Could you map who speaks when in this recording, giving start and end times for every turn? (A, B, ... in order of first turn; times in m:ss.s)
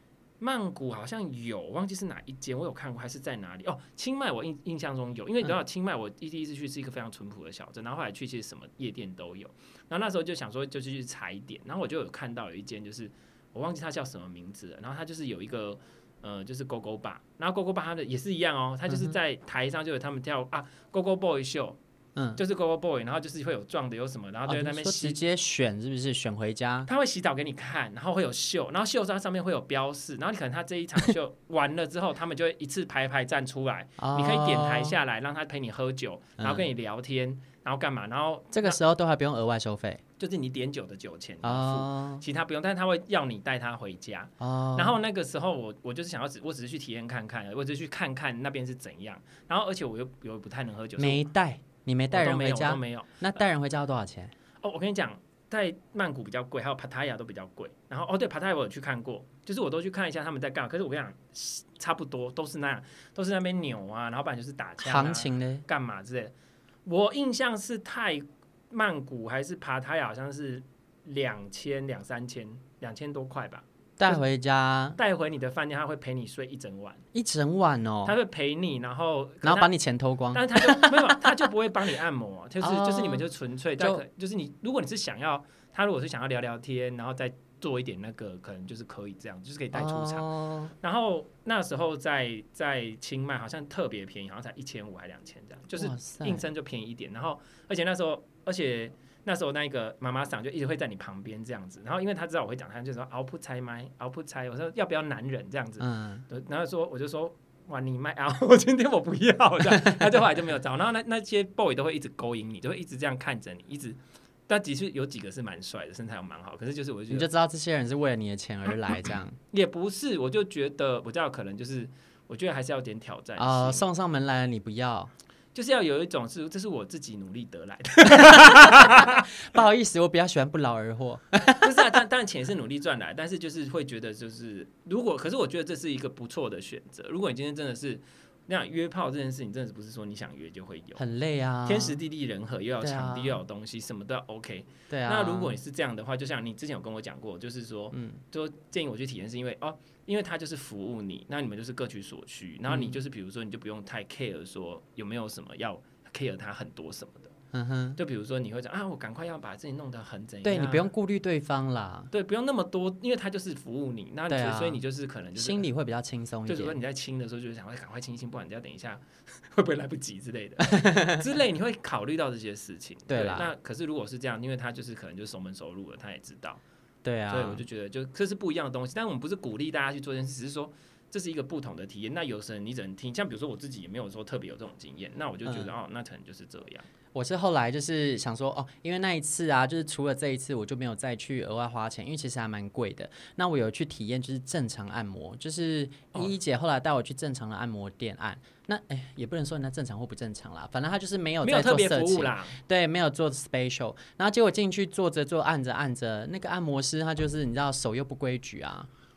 0:00.4-0:21.8 A
0:18.9-0:19.2 B
0:22.2-0:22.4 B
0:22.4-0:25.2 A
0:24.5-0:26.9 B
0:26.8-0:38.8 A
0:34.0-0:35.0 B
0:36.4-0:36.6 B
0:38.5-0:40.0 B
0:40.2-0:51.2 A
0:41.4-0:42.2 B
0:44.4-0:45.0 B
0:51.0-0:54.3 B
0:52.1-0:53.4 A
0:54.6-1:06.3 A
1:04.8-1:05.6 B
1:06.8-1:14.2 A
1:14.0-1:15.0 B
1:15.0-1:17.0 A
1:17.1-1:18.2 B
1:18.0-1:19.7 A
1:19.4-1:21.2 B
1:20.3-1:30.2 A
1:22.6-1:23.2 B
1:23.8-1:24.0 B
1:29.7-1:30.7 B
1:30.8-1:57.3 A
1:35.7-1:36.4 B
1:45.8-1:46.2 B
1:57.1-1:59.4 B
1:59.5-2:03.8 A
2:03.4-2:05.1 B
2:05.5-2:09.3 A
2:08.0-2:12.0 B
2:11.4-2:21.0 A
2:21.0-2:22.0 B
2:21.6-2:37.3 A
2:22.8-2:23.4 B
2:24.9-2:25.6 B
2:27.9-2:28.2 B
2:32.7-2:33.0 B
2:37.5-2:38.0 B
2:38.0-2:40.9 A
2:40.4-2:42.1 B
2:42.1-2:45.6 A
2:44.3-2:44.8 B
2:45.4-2:46.8 B
2:46.5-2:56.6 A
2:50.6-2:51.2 B
2:53.1-2:53.5 B
2:57.0-2:57.6 B
2:57.3-3:06.8 A
3:07.1-3:28.9 B
3:21.4-3:22.6 A